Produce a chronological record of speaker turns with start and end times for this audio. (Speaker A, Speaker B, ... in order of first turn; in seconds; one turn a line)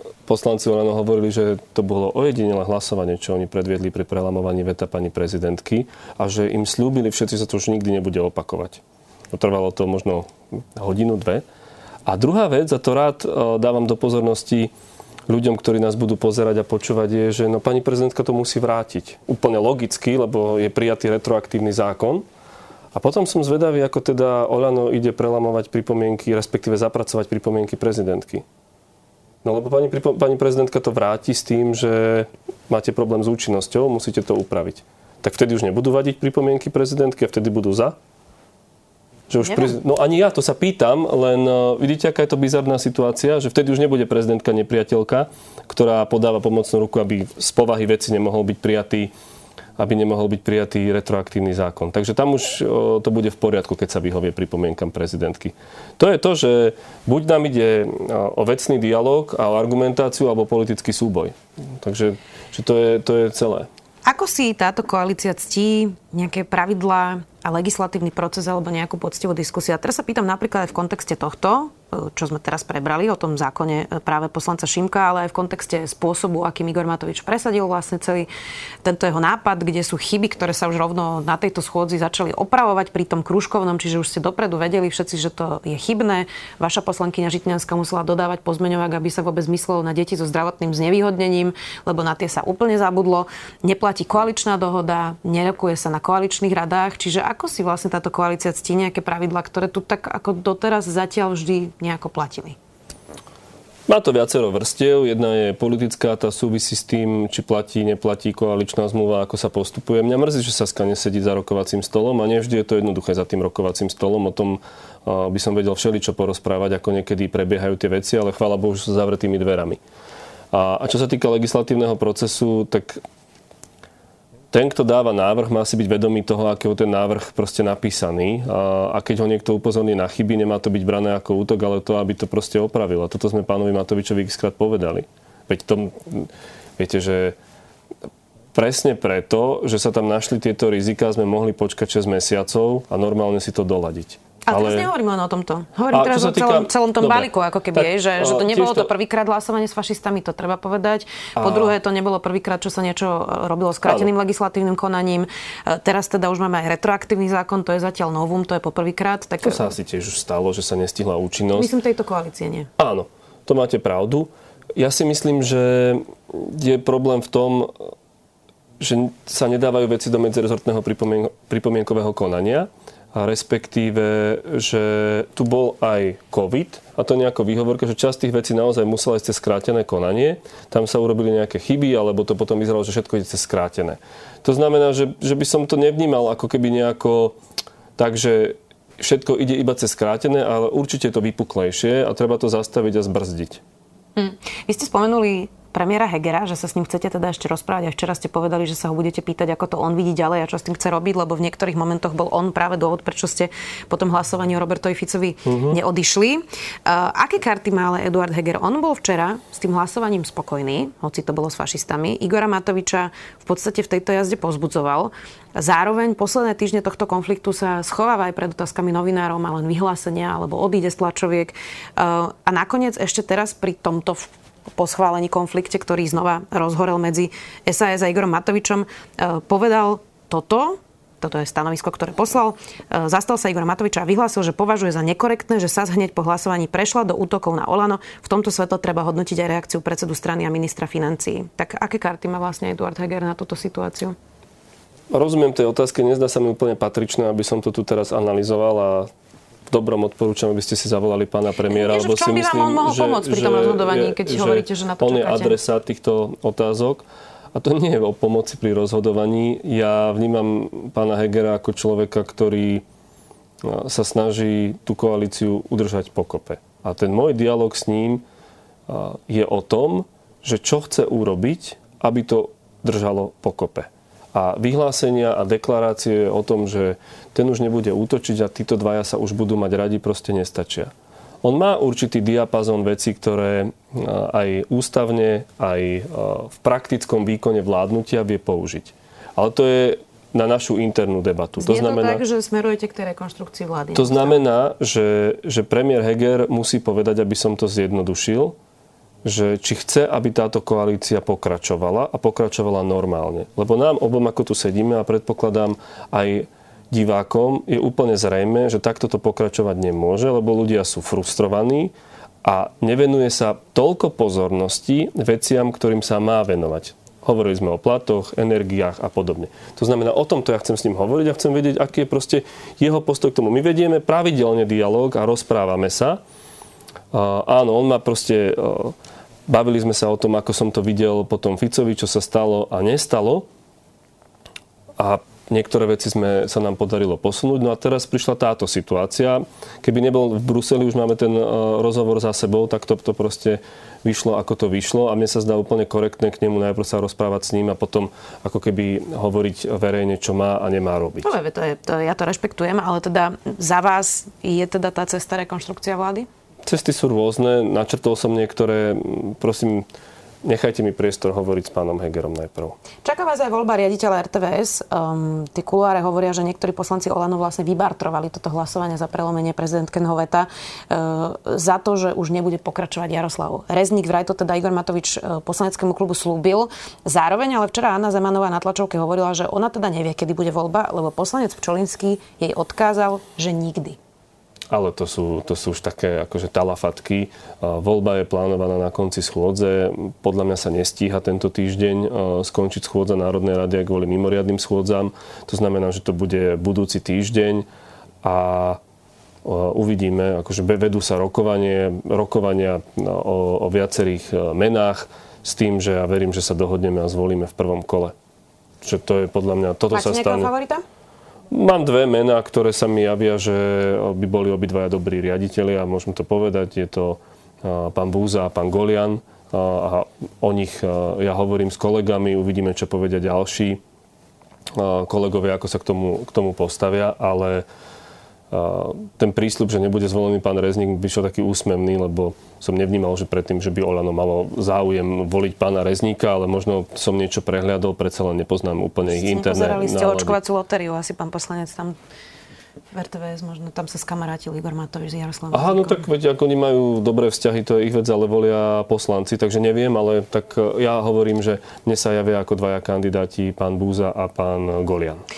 Speaker A: 0.2-11.4
Speaker A: 12.0-14.7
Speaker A: 15.3-22.2
Speaker A: 22.9-28.4
Speaker A: 29.4-38.0
Speaker A: 39.3-49.1
Speaker B: 39.4-39.7
Speaker A: 49.8-63.7
Speaker B: 64.0-78.3
Speaker B: 78.8-102.6
Speaker A: 103.9-119.8
Speaker A: 120.5-123.0
Speaker A: 124.5-137.4
Speaker A: 138.5-144.9
Speaker B: 144.4-159.7
Speaker A: 145.9-148.9
Speaker A: 151.4-151.7
Speaker A: 159.4-161.7
Speaker B: 161.5-162.7
Speaker A: 162.8-167.9
Speaker A: 168.8-187.4
Speaker A: 188.0-193.6
Speaker B: 194.2-244.2
Speaker A: 205.5-205.8
Speaker A: 245.1-249.1
Speaker A: 249.7-262.8
Speaker B: 251.7-255.6
Speaker A: 263.6-268.2
Speaker A: 268.9-292.2
Speaker B: 291.6-294.4
Speaker A: 293.9-298.6
Speaker A: 299.2-326.2
Speaker A: 327.1-328.9
Speaker A: 329.5-333.5
Speaker A: 335.0-351.3
Speaker B: 351.2-356.3
Speaker A: 356.6-359.9
Speaker A: 360.4-362.8
Speaker B: 363.0-384.0
Speaker A: 384.7-397.7
Speaker A: 398.2-398.8
Speaker A: 399.4-408.1
Speaker A: 408.8-410.5
Speaker B: 409.9-410.8
Speaker A: 411.5-423.8
Speaker A: 424.7-427.6
Speaker A: 428.5-440.4
Speaker B: 439.1-441.9
Speaker B: 442.9-446.0
Speaker A: 445.5-455.2